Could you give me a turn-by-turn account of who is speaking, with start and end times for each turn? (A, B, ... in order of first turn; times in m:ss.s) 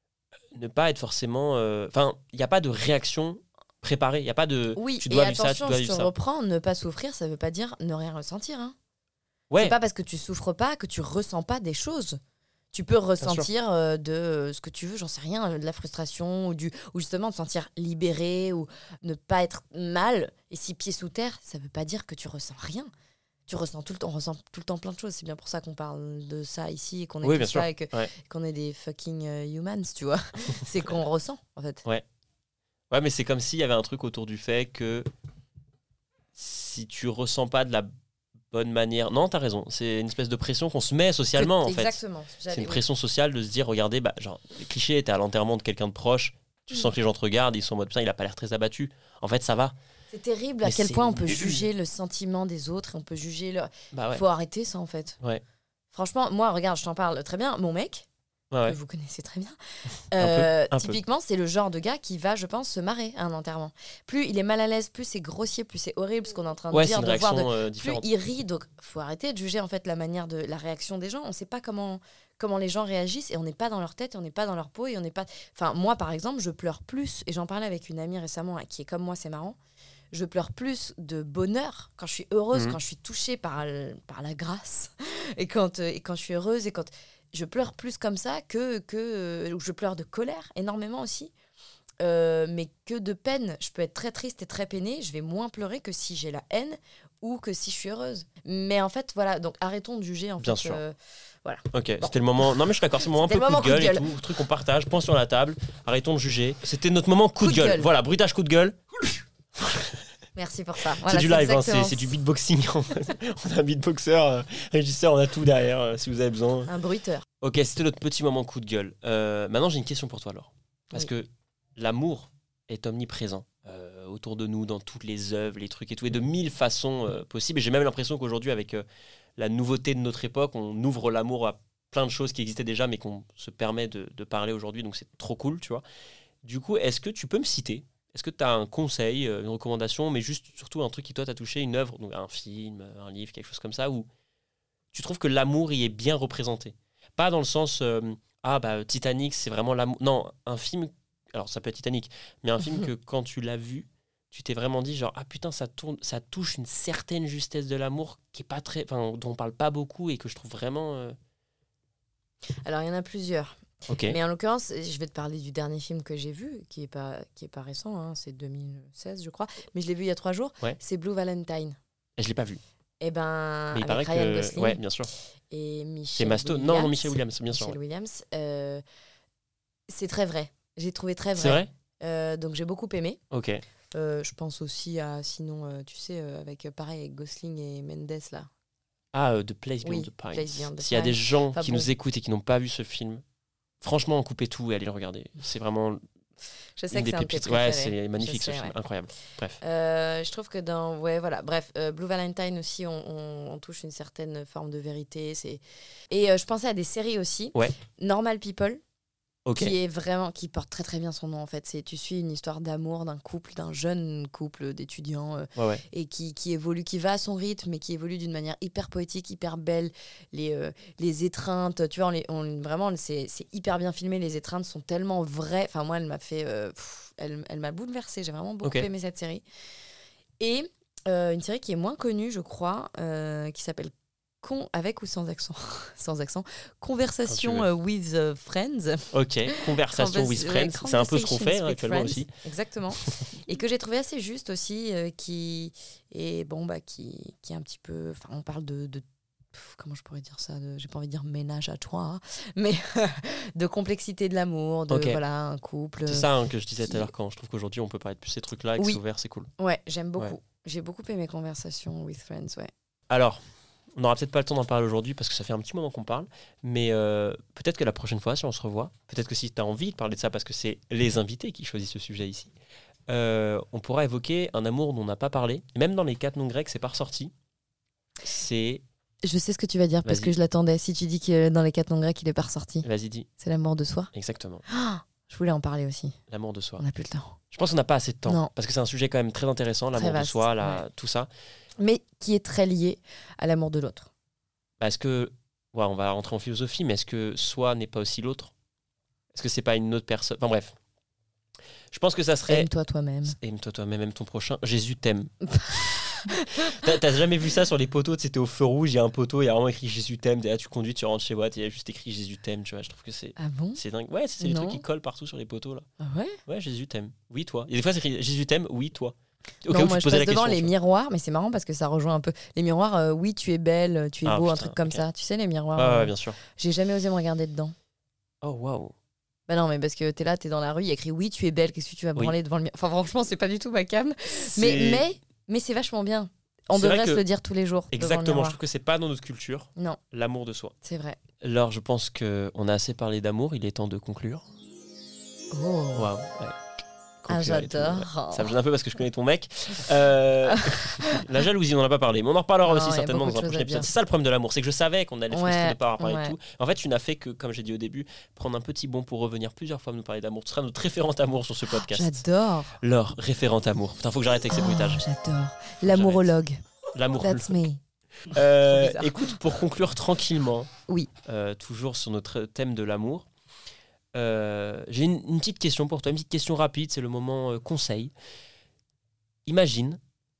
0:00.5-0:06.1 A
0:04.8-0:08.8 B
0:09.5-0:09.8 A
0:09.6-0:12.2 B
0:12.7-0:22.9 B
0:13.2-0:13.5 A
0:23.5-0:31.8 B
0:27.2-0:28.1 A
0:32.9-0:35.1 A
0:36.3-0:37.9 A
0:38.5-0:42.0 A
0:41.4-0:42.8 B
0:42.5-0:49.7 A
0:50.1-0:55.2 B
0:50.6-0:51.6 A
0:53.9-0:54.2 A
0:55.9-0:58.1 B
0:58.5-0:58.8 A
0:58.6-0:59.6 B
1:00.1-1:19.6 B
1:00.2-1:01.0 A
1:06.7-1:08.0 A
1:20.1-1:31.3 B
1:32.0-1:42.1 B
1:40.4-1:40.8 A
1:41.7-1:50.0 A
1:43.1-1:44.1 B
1:47.4-1:47.9 B
1:50.3-1:52.1 B
1:51.0-1:56.7 A
1:56.7-1:57.2 B
1:57.4-2:08.8 A
2:09.4-2:15.8 A
2:16.4-2:24.1 A
2:24.9-2:41.2 A
2:42.6-2:51.8 B
2:43.9-2:44.2 A
2:52.2-2:52.6 A
2:53.0-2:54.8 B
2:53.7-2:55.1 A
2:55.5-2:58.8 B
2:56.2-2:57.8 A
2:59.9-3:03.2 B
3:01.4-3:01.7 A
3:03.3-3:03.6 A
3:03.9-3:08.5 B
3:09.1-3:13.2 A
3:09.8-3:11.9 B
3:13.8-3:16.0 A
3:16.8-3:18.7 B
3:16.9-3:19.6 A
3:19.6-3:28.8 B
3:29.4-3:29.7 A
3:29.6-3:49.4 B
3:35.6-3:35.8 A
3:48.6-3:48.9 A
3:50.4-4:16.3 B
3:57.3-3:57.7 A
3:59.1-4:02.3 A
4:14.9-4:15.2 A
4:16.1-4:19.5 A
4:16.8-4:17.1 B
4:19.6-4:22.7 B
4:23.1-4:23.4 A
4:24.0-4:32.5 A
4:33.1-4:37.3 A
4:38.2-4:38.8 A
4:39.2-4:42.8 B
4:40.0-4:40.3 A
4:42.8-4:43.3 A
4:43.4-4:44.1 B
4:44.1-4:44.6 A
4:44.7-4:46.2 B
4:46.3-4:46.8 A
4:46.8-4:47.4 B
4:47.5-4:51.3 A
4:49.9-4:50.8 B
4:51.8-4:54.1 B
4:54.8-4:58.5 A
4:59.3-5:00.8 A
5:01.9-5:02.7 A
5:02.5-5:03.4 B
5:03.2-5:15.9 A
5:05.5-5:06.8 B
5:13.4-5:13.8 B
5:14.4-5:14.8 B
5:16.0-5:16.4 B
5:16.4-5:20.7 A
5:19.7-5:27.7 B
5:24.2-5:25.0 A
5:25.8-5:26.4 A
5:28.4-5:28.9 A
5:29.5-5:38.6 B
5:34.4-5:35.0 A
5:36.7-5:37.2 A
5:37.9-5:40.7 A
5:40.8-5:41.2 B
5:41.4-5:44.5 A
5:45.5-5:46.1 B
5:46.0-5:46.6 A
5:47.2-6:02.2 A
5:47.3-5:48.5 B
5:50.5-5:51.2 B
5:52.6-5:53.9 B
5:55.3-5:56.4 B
6:01.7-6:02.8 B
6:02.8-6:05.0 A
6:04.5-6:06.6 B
6:05.8-6:06.3 A
6:06.9-6:07.6 A
6:07.1-6:07.8 B
6:08.2-6:10.7 A
6:08.3-6:09.4 B
6:11.2-6:13.3 A
6:14.1-6:18.1 A
6:19.4-6:20.0 A